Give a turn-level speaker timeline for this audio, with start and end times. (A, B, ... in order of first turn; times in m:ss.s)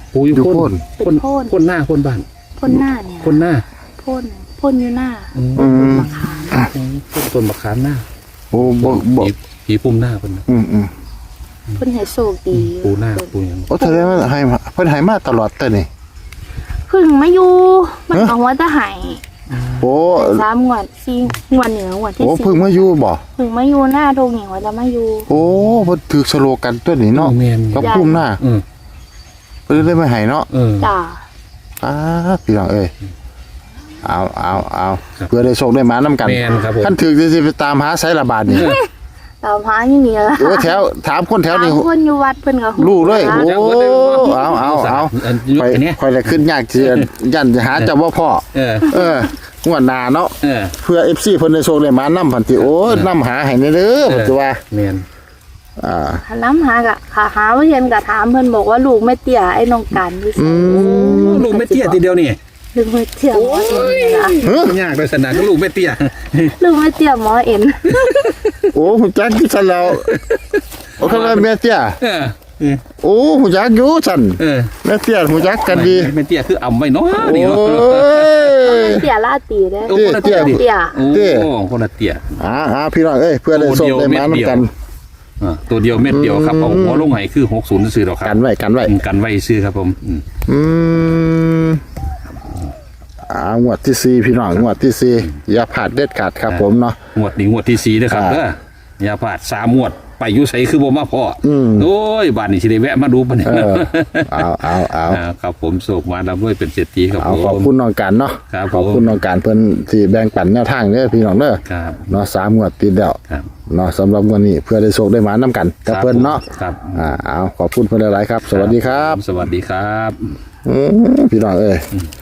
0:00.1-0:03.6 A
0:00.3-0:00.8 B
0:01.0-0:01.5 C
0:02.6-0:03.4 C
0:04.0-0:06.7 C
0:05.4-0:10.5 A
0:05.6-0:06.7 B
0:08.5-0:09.3 B
0:10.5-0:10.9 B
0:11.8-0:14.3 C
0:12.5-0:13.8 A
0:13.7-0:15.9 B
0:16.9-0:19.2 C
0:19.5-0:19.9 A
0:19.8-0:20.4 B
0:20.1-0:25.3 C
0:22.2-0:23.2 B
0:25.3-0:28.4 B
0:25.3-0:26.0 A
0:27.1-0:28.6 A
0:27.8-0:28.3 C
0:29.7-0:30.5 B
0:30.5-0:30.9 A
0:30.8-0:31.2 C
0:31.8-0:32.9 B
0:34.0-0:38.8 B
0:36.2-0:37.0 A
0:38.5-0:38.9 C
0:38.5-0:38.8 A
0:39.4-0:40.8 C
0:40.4-0:41.9 B
0:41.5-0:44.6 C
0:42.8-0:54.6 B
0:43.0-0:47.1 A
0:48.5-0:48.9 A
0:50.4-0:50.8 A
0:52.6-0:53.1 A
0:54.0-0:55.0 A
0:55.8-0:56.2 B
0:56.2-1:02.0 C
1:00.4-1:01.4 B
1:00.6-1:02.4 A
1:02.7-1:04.4 C
1:03.3-1:06.6 A
1:04.4-1:04.8 B
1:06.6-1:08.3 C
1:07.9-1:08.6 A
1:08.7-1:10.1 B
1:09.9-1:11.5 A
1:11.0-1:12.0 B
1:12.0-1:12.8 A
1:13.0-1:16.1 B
1:14.4-1:14.7 A
1:15.6-1:18.7 A
1:17.2-1:19.1 B
1:18.6-1:21.0 C
1:19.9-1:22.4 A
1:19.9-1:21.5 B
1:22.4-1:24.7 B
1:23.5-1:24.7 A
1:25.4-1:30.2 A
1:26.1-1:27.1 B
1:28.2-1:28.9 B
1:30.5-1:31.8 B
1:33.3-1:37.0 B
1:36.5-1:47.7 A
1:38.1-1:38.4 B
1:41.4-1:41.9 B
1:43.4-1:45.2 B
1:47.2-1:59.2 B
1:48.5-1:49.2 A
1:51.7-1:52.1 A
1:55.9-1:57.0 A
1:58.5-2:00.2 A
2:00.6-2:01.9 B